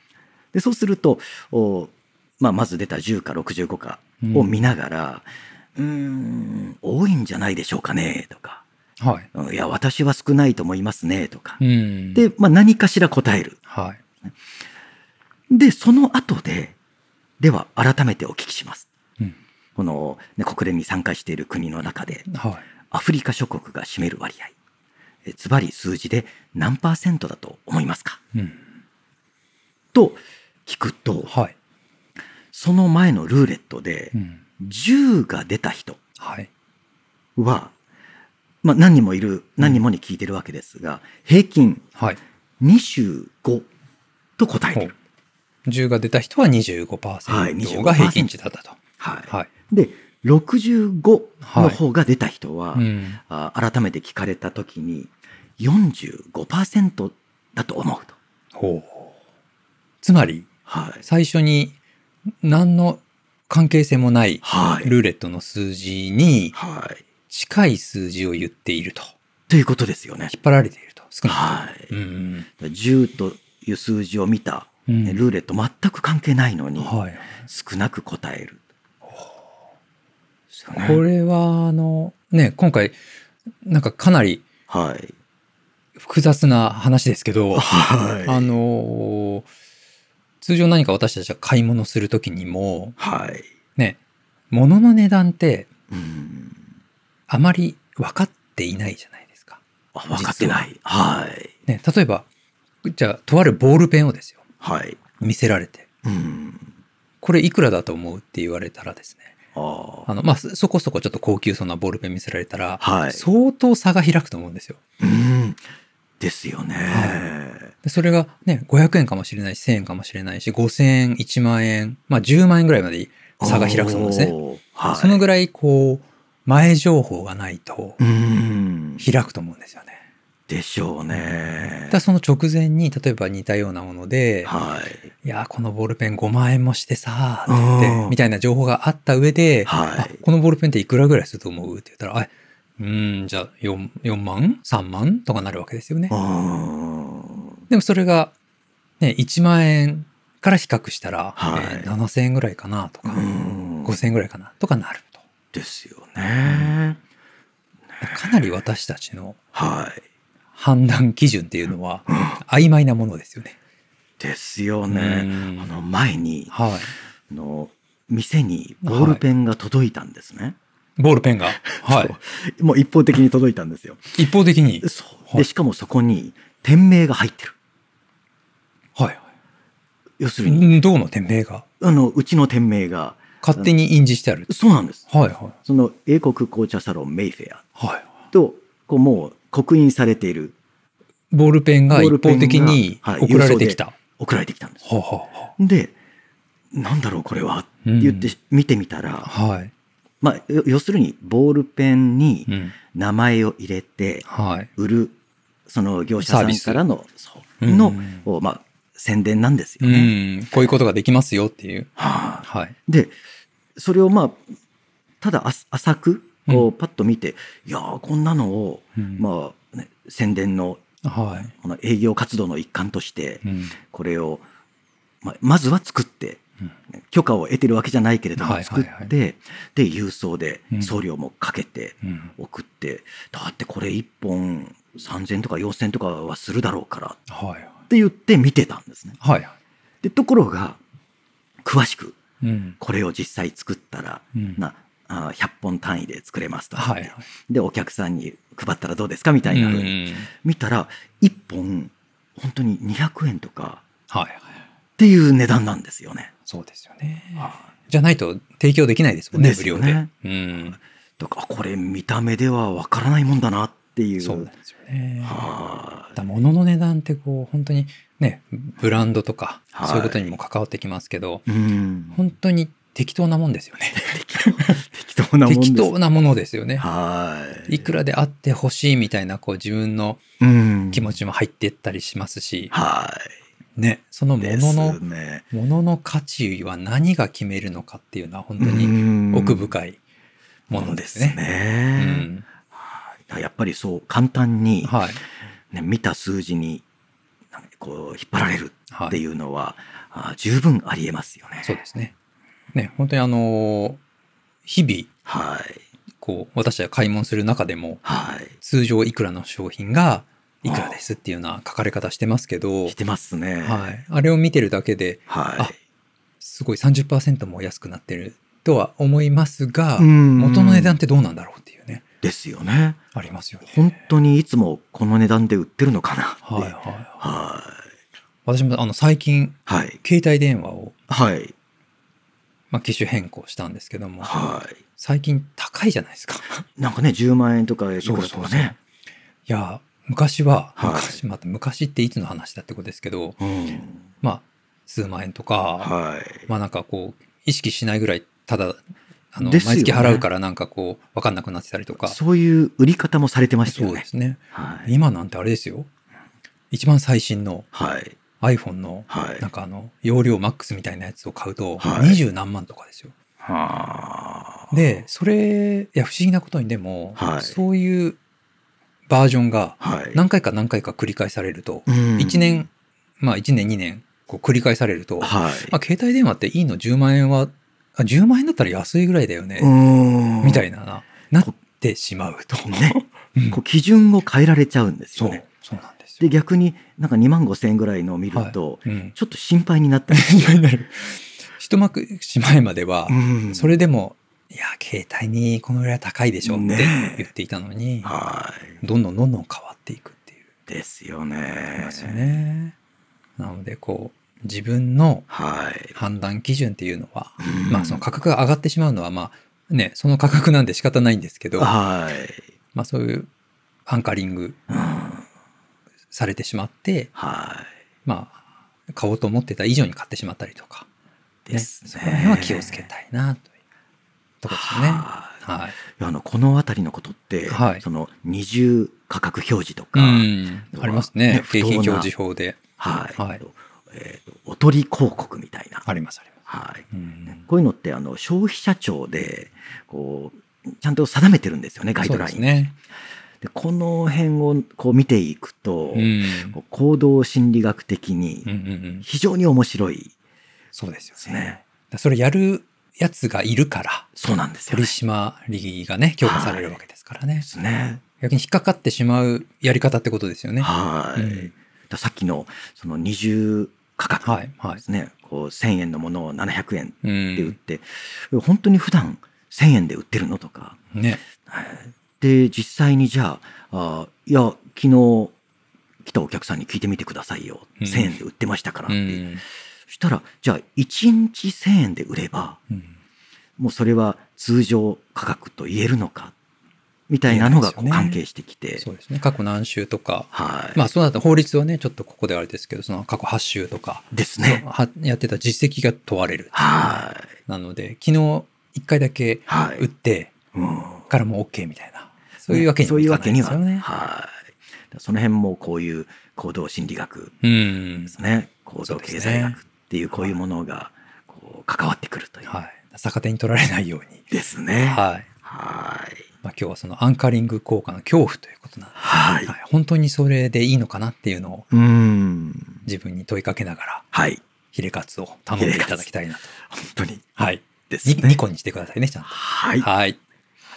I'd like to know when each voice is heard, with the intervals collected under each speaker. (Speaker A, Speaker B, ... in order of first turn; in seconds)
Speaker A: 0.5-8.6, 9.3-11.6, 12.2-13.6, 15.5-16.8, 17.4-18.9, 19.8-22.3, 22.9-24.6, 25.2-28.2, 29.9-31.3, 32.5-36.0, 37.4-37.7, 38.6-41.8, 42.6-43.7, 44.4-44.9, 47.3-48.3, 49.0-58.2, 60.7-61.0, 64.4-64.9, 66.5-67.0, 69.5-70.3, 71.3-71.9, 72.6-78.6, 80.7-81.0, 84.7-85.1, 87.5-88.5, 93.0-93.5, 95.9-96.6, 100.0-101.5, 104.6-105.0, 106.0-106.7, 109.5-110.1, 112.8-113.2, 115.0-115.6, 116.2-117.7, 123.4-125.2, 128.0-129.1, 130.5-132.0, 134.4-135.1, 137.5-138.2, 139.7-140.2, 146.1-147.6, 151.4-151.9, 153.1-154.1, 155.5-157.0, 159.5-160.0, 162.1-162.4, 164.2-166.6, 167.3-170.6, 171.5-174.2, 174.8-177.6, 180.2-180.8, 181.8-183.7, 184.5-185.1, 185.7-187.6, 188.3-190.6, 191.9-194.8, 195.6-195.9, 196.7-199.3, 200.2-205.2, 205.7-210.1, 212.0-213.2, 213.8-214.4, 215.2-220.8, 221.4-224.4, 225.2-226.4, 226.9-237.2, 237.9-239.2, 240.0-240.8, 241.6-242.2, 242.8-253.8, 255.0-256.3, 257.4-257.6, 259.3-260.1, 261.2-264.5, 265.2-266.1, 269.7-270.3, 271.5-272.2, 273.9-275.9, 276.8-277.9, 280.4-281.1, 282.7-283.4, 284.4-285.4, 288.6-289.7, 290.7-295.0, 295.7-296.8, 297.5-301.8, 305.3-305.8, 308.0-308.5, 310.6-311.0, 312.9-313.9, 315.3-315.7, 320.0-321.0, 322.2-323.0, 323.6-327.9, 329.7-330.0, 331.1-331.5, 334.2-334.8, 336.8-338.8, 340.8-341.2, 343.4-344.0, 345.8-346.5, 349.4-350.3, 351.9-354.9, 357.7-358.2, 359.1-359.4, 361.8-362.2, 363.4-364.8, 367.2-367.6, 369.8-370.2, 371.9-372.7, 375.2-375.8, 379.6-380.7, 382.7-383.0, 383.5-385.4, 386.2-390.6, 393.1-393.8, 396.4-397.3, 398.0-398.8, 400.7-402.4, 405.3-405.9, 407.4-408.0, 411.6-412.4, 414.7-415.2, 417.1-417.7, 421.5-422.9, 424.5-432.1, 432.8-435.9, 436.5-442.6, 443.4-448.5, 449.0-450.1, 451.2-451.6, 454.2-455.0, 456.2-456.8, 457.4-458.0, 460.6-475.4, 476.0-479.3, 479.9-482.6, 483.6-486.4, 487.1-488.9, 490.3-490.8, 494.1-494.6, 496.5-497.3, 499.5-499.9, 500.5-501.1, 502.5-504.4, 504.9-507.4, 508.1-512.5, 514.3-516.3, 519.0-519.5, 521.7-522.8, 524.1-524.4, 525.6-526.1, 526.7-527.4, 527.9-528.4, 529.3-529.9
Speaker B: 4.2-4.7, 9.0-9.3, 11.6-12.2, 13.7-14.0, 22.3-22.6, 28.4-28.6, 31.3-31.5, 34.1-34.4, 36.2-36.5, 45.7-48.8, 51.4-51.8, 52.8-53.2, 58.5-59.1, 60.0-60.5, 61.0-61.8, 62.4-66.6, 67.3-69.1, 70.3-72.5, 74.9-75.2, 76.8-77.4, 79.1-79.5, 80.6-83.0, 83.6-84.4, 86.0-87.7, 88.3-89.5, 90.4-93.0, 94.5-95.7, 97.3-99.6, 100.1-100.7, 101.7-102.3, 102.8-104.4, 105.2-105.9, 107.2-109.3, 110.1-114.8, 116.9-117.3, 117.8-124.3, 124.9-128.0, 129.0-130.0, 131.1-134.5, 135.2-146.1, 147.7-148.3, 149.0-153.3, 153.8-155.2, 156.4-156.8, 158.0-159.4, 160.6-163.6, 164.9-165.7, 166.5-166.9, 168.8-169.2, 171.0-172.2, 174.2-175.5, 179.0-179.2, 180.4-181.7, 183.4-184.5, 185.1-185.6, 187.8-188.1, 191.3-194.0, 194.8-195.5, 197.8-198.3, 199.2-199.7, 202.5-202.8, 204.3-204.7, 206.2-206.8, 207.6-208.2, 209.8-211.9, 212.4-212.8, 219.0-219.2, 221.0-221.5, 223.4-223.8, 228.4-229.1, 232.0-232.3, 237.3-237.7, 239.2-239.5, 242.4-242.8, 246.8-247.2, 249.5-250.3, 254.1-254.4, 256.5-260.8, 264.2-265.5, 266.1-271.4, 272.1-274.8, 275.4-276.9, 277.7-280.2, 280.9-282.7, 283.8-285.0, 285.5-290.0, 290.7-291.4, 292.0-292.4, 294.8-295.2, 298.9-299.2, 301.6-302.1, 302.7-304.0, 304.6-305.1, 306.2-308.0, 308.6-312.9, 313.6-315.7, 316.4-322.0, 323.1-323.8, 326.4-327.2, 328.5-331.0, 332.7-334.3, 335.0-336.6, 338.0-338.8, 339.5-343.4, 344.2-345.9, 346.5-352.2, 353.7-355.9, 356.7-357.7, 358.4-363.1, 364.7-368.2, 369.1-372.7, 373.2-379.7, 380.4-383.6, 385.2-386.3, 388.3-389.1, 390.1-398.1, 398.8-400.4, 401.8-402.7, 403.4-405.3, 405.9-411.7, 412.7-413.3, 413.9-414.6, 416.1-417.1, 418.1-418.4, 418.9-420.9, 421.5-423.5, 424.4-425.8, 427.5-427.8, 429.9-432.6, 433.2-433.4, 435.9-436.3, 436.9-437.4, 442.0-442.7, 445.9-446.6, 448.5-449.1, 450.7-454.1, 454.7-457.5, 458.2-461.6, 464.2-464.8, 467.0-467.6, 470.9-471.2, 477.8-478.1, 478.9-479.4, 487.3-488.2, 488.8-500.4, 501.1-503.9, 507.4-508.1, 508.8-509.6, 512.5-514.2, 514.9-515.3, 516.4-521.7, 522.9-524.1, 524.7-526.5, 527.4-530.2